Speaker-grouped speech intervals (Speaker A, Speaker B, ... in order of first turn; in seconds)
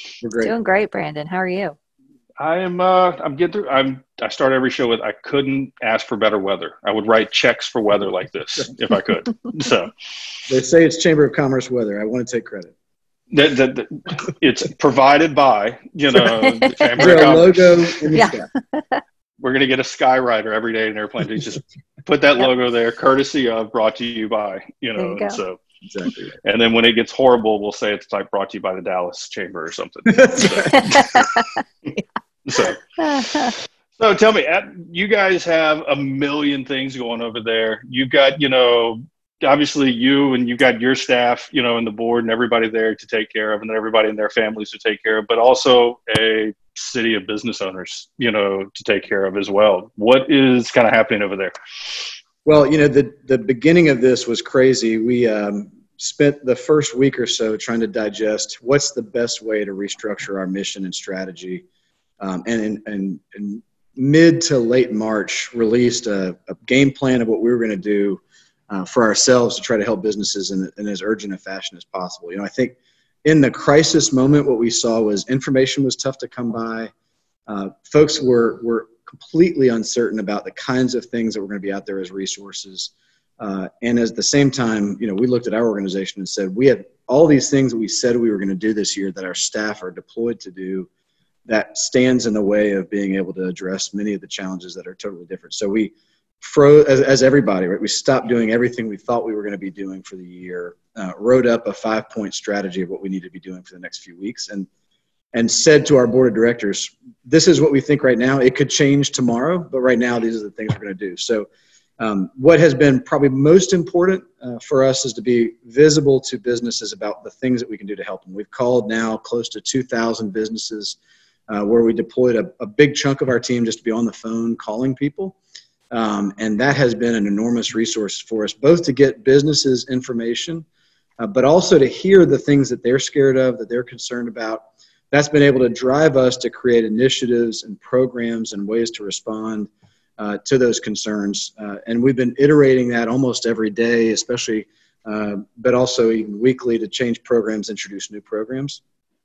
Speaker A: 0.2-0.5, 10.5-12.7, 17.0-18.5, 25.8-26.3, 30.2-30.7, 52.5-61.6, 62.2-76.9, 77.5-90.9, 91.5-104.7, 105.3-111.5, 112.0-121.0, 121.5-125.4, 125.9-130.7, 131.2-148.8
Speaker B: 0.4-1.8, 16.2-17.2, 18.1-19.0, 25.0-25.4, 30.5-31.6, 33.0-33.5
Speaker C: 2.4-9.9, 13.3-18.2, 19.4-25.6, 26.4-31.3, 32.5-51.5